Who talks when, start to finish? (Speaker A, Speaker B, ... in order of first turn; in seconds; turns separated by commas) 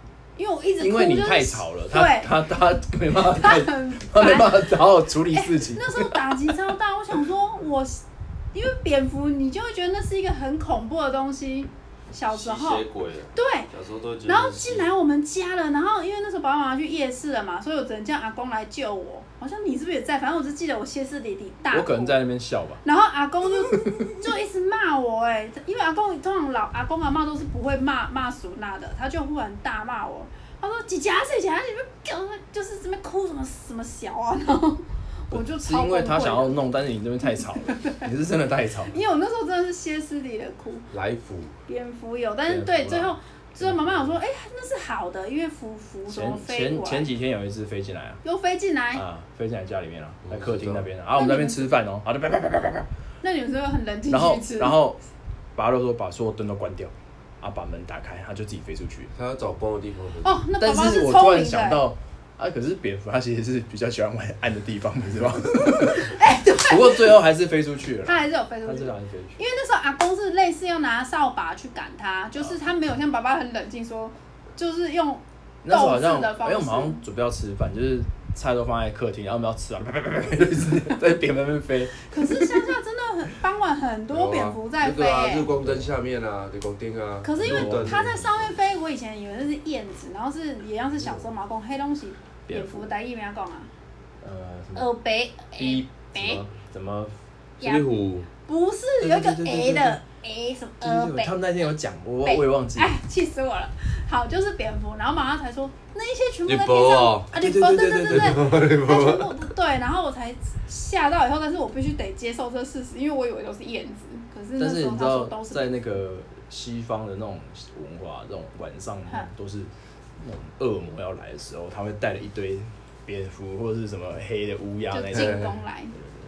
Speaker A: 0.4-2.4, Speaker B: 0.8-6.5, Speaker A: 3.3-13.7, Speaker C: 12.2-14.9, Speaker A: 14.2-22.2, Speaker B: 21.7-22.8, Speaker A: 22.8-36.6, Speaker B: 35.3-39.0, Speaker A: 37.3-38.0, Speaker A: 38.9-40.9, Speaker C: 40.9-41.6, Speaker A: 41.7-47.1, Speaker B: 42.5-44.1, Speaker B: 46.1-48.2, Speaker A: 48.2-49.0, Speaker B: 48.9-52.9, Speaker C: 50.3-50.9, Speaker A: 51.1-51.7, Speaker A: 53.2-54.8, Speaker B: 54.1-55.0, Speaker B: 55.5-59.1, Speaker C: 59.1-60.4, Speaker A: 60.2-61.8, Speaker B: 60.6-69.4, Speaker A: 65.8-67.2, Speaker A: 68.0-77.0, Speaker B: 75.6-82.7, Speaker A: 82.1-85.5, Speaker C: 84.1-88.4, Speaker B: 85.6-85.9, Speaker A: 87.2-93.7, Speaker B: 87.3-88.4, Speaker B: 92.5-92.9, Speaker B: 94.2-94.9, Speaker A: 94.7-96.4, Speaker B: 95.5-97.1, Speaker A: 97.6-97.8, Speaker C: 97.6-98.3, Speaker A: 98.4-101.3, Speaker B: 99.0-100.0, Speaker B: 100.8-102.9, Speaker A: 102.2-115.8, Speaker C: 106.5-107.3, Speaker B: 107.3-108.5, Speaker C: 108.1-109.3, Speaker B: 114.6-126.0, Speaker A: 124.9-125.9, Speaker C: 125.1-125.5